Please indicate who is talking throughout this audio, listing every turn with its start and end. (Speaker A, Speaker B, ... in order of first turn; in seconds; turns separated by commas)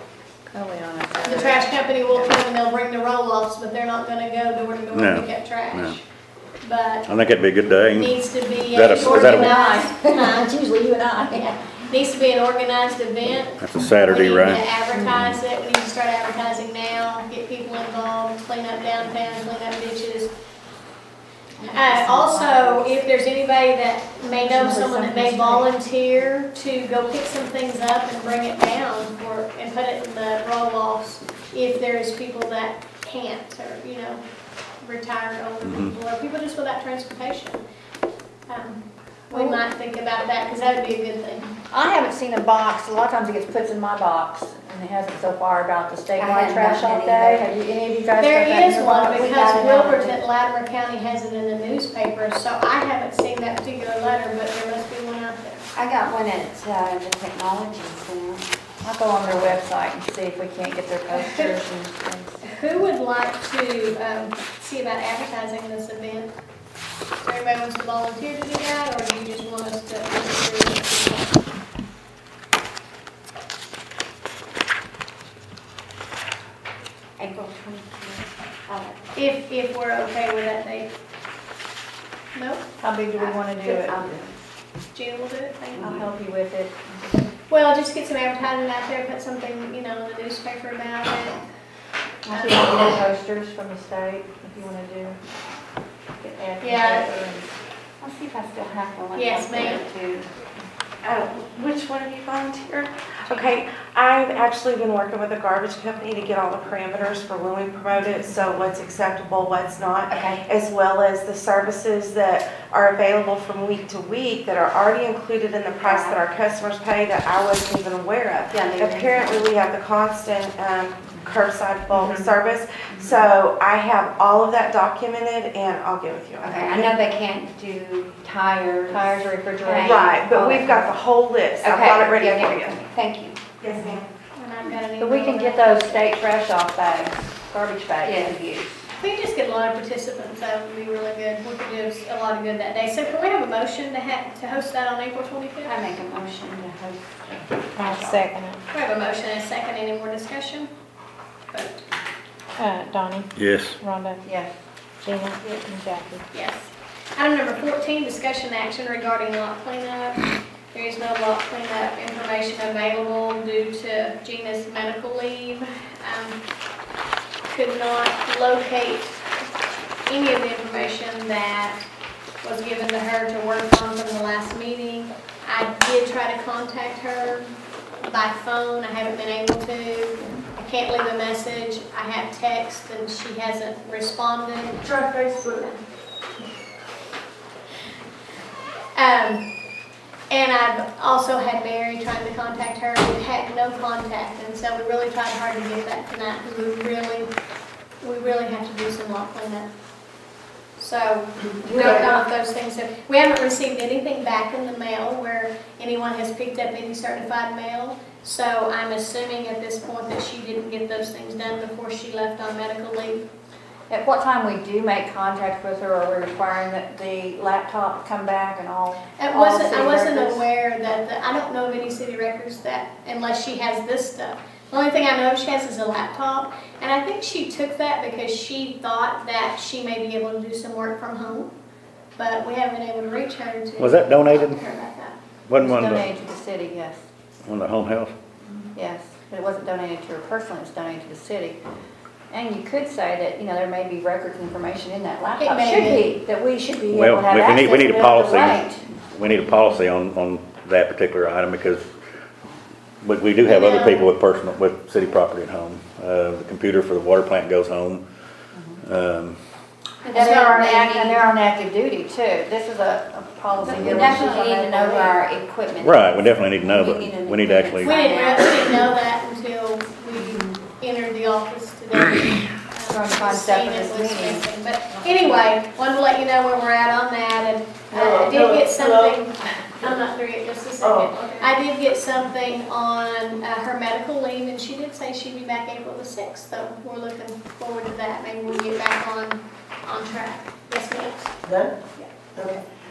Speaker A: 0.5-2.4, Speaker B: 1.2-6.0, Speaker C: 4.9-6.0, Speaker B: 6.6-7.1, Speaker C: 7.1-8.2, Speaker B: 7.9-10.6, Speaker C: 8.7-9.6, Speaker A: 9.0-11.5, Speaker B: 11.3-20.3, Speaker C: 13.6-15.4, Speaker A: 21.6-23.1, Speaker B: 21.6-34.2, Speaker A: 24.4-25.7, Speaker B: 34.8-37.6, Speaker C: 35.6-35.9, Speaker B: 38.5-41.5, Speaker A: 39.3-39.6, Speaker A: 41.7-50.1, Speaker D: 46.2-47.5, Speaker B: 48.2-55.7, Speaker D: 55.8-58.5, Speaker A: 58.8-62.4, Speaker B: 61.1-61.5, Speaker B: 62.5-66.3, Speaker B: 67.2-71.4, Speaker D: 77.2-79.0, Speaker B: 79.2-80.9, Speaker B: 82.3-82.6, Speaker A: 82.8-84.0, Speaker D: 83.2-84.4, Speaker B: 84.9-85.9, Speaker A: 85.8-87.3, Speaker B: 87.5-91.4, Speaker A: 92.3-95.2, Speaker B: 92.3-92.7, Speaker A: 96.2-100.3, Speaker B: 96.6-97.1, Speaker B: 99.2-99.8, Speaker E: 101.0-127.0, Speaker D: 110.1-110.4, Speaker D: 115.9-116.2, Speaker D: 118.6-119.4, Speaker D: 126.6-129.0, Speaker A: 128.9-130.9, Speaker D: 129.7-130.1, Speaker E: 129.8-132.8, Speaker D: 131.6-133.4, Speaker E: 133.6-134.1, Speaker B: 134.3-136.1, Speaker A: 135.0-138.7, Speaker D: 138.1-138.6, Speaker B: 139.0-145.8, Speaker D: 145.7-148.2, Speaker F: 147.8-148.6, Speaker B: 148.7-150.7, Speaker B: 151.5-151.8, Speaker F: 152.6-154.2, Speaker C: 153.3-153.8, Speaker A: 154.2-154.5, Speaker F: 155.0-156.2, Speaker B: 156.3-166.4, Speaker B: 167.5-169.2, Speaker B: 170.1-171.8, Speaker B: 172.4-185.8, Speaker G: 184.8-185.7, Speaker B: 188.9-189.4, Speaker B: 190.3-197.3, Speaker B: 198.0-199.7, Speaker B: 200.8-213.2, Speaker A: 201.7-202.2, Speaker A: 213.9-220.4, Speaker B: 219.2-231.5, Speaker B: 232.2-235.2, Speaker C: 233.8-234.6, Speaker C: 235.5-236.1, Speaker A: 235.6-237.0, Speaker C: 237.4-238.1, Speaker A: 238.8-241.6, Speaker A: 242.3-248.8, Speaker B: 245.4-246.1, Speaker C: 246.9-251.9, Speaker C: 253.0-258.0, Speaker B: 253.4-254.1, Speaker A: 258.5-258.8, Speaker C: 258.9-259.4, Speaker B: 260.1-260.6, Speaker A: 260.1-265.2, Speaker D: 260.2-261.2, Speaker D: 263.7-265.9, Speaker C: 265.8-268.0, Speaker D: 266.7-268.7, Speaker B: 267.8-291.3, Speaker A: 272.9-274.4, Speaker G: 277.9-280.0, Speaker G: 280.8-281.5, Speaker G: 291.4-291.8, Speaker G: 292.4-292.6